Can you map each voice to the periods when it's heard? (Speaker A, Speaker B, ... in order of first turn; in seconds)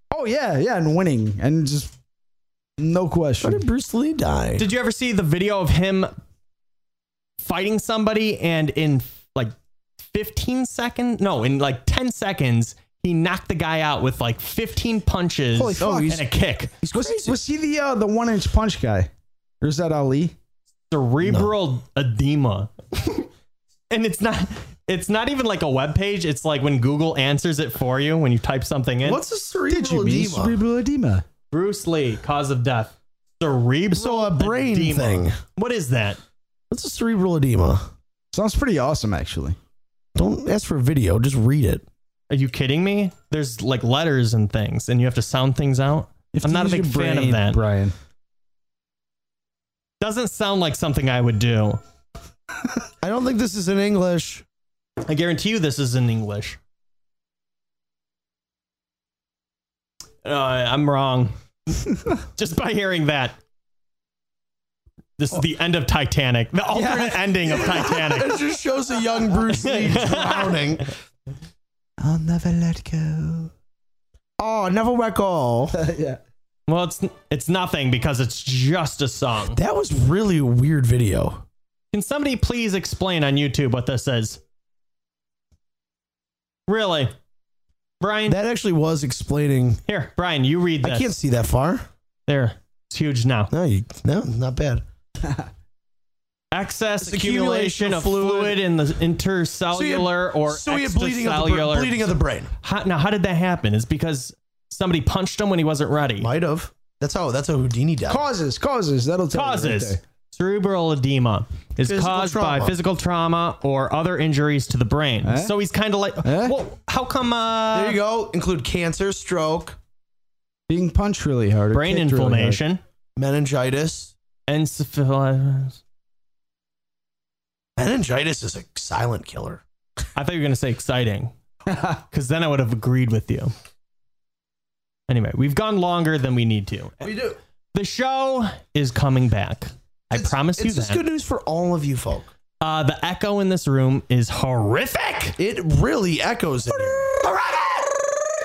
Speaker A: 0.1-1.9, 2.8-3.6, 15.5-16.3, 16.9-19.1, 19.6-20.4, 21.2-21.5, 29.7-31.2, 38.3-39.6, 46.3-47.9, 66.7-67.2, 72.0-73.5, 75.7-76.2, 108.1-110.0, 115.2-115.5, 116.2-116.6, 120.7-122.6
Speaker B: 3.4-4.7, 15.8-16.2, 16.8-17.4, 29.1-30.6, 33.9-35.4, 36.7-37.9, 40.2-41.9, 53.0-54.4, 67.5-70.9, 74.4-75.8, 79.6-81.4, 88.3-89.8, 90.8-91.8, 93.5-94.8, 97.0-98.6, 99.7-102.5, 106.2-108.2, 111.8-112.8, 117.7-119.8, 123.2-124.1, 127.8-129.6, 137.0-137.4, 140.1-142.3, 145.4-148.2
Speaker C: 4.6-6.1, 7.4-9.5, 10.1-16.7, 20.9-23.3, 23.9-29.2, 31.5-36.2, 42.3-47.6, 50.0-51.8, 55.0-56.6, 60.2-63.4, 65.2-68.4, 69.5-70.6, 76.7-79.6, 81.9-84.4, 86.7-87.1, 88.0-88.4, 89.9-91.1, 92.3-93.5, 96.5-102.1, 102.6-106.3, 109.3-118.0, 121.7-122.8, 124.5-125.8, 130.2-133.5, 135.1-137.1, 137.7-141.0, 142.6-145.4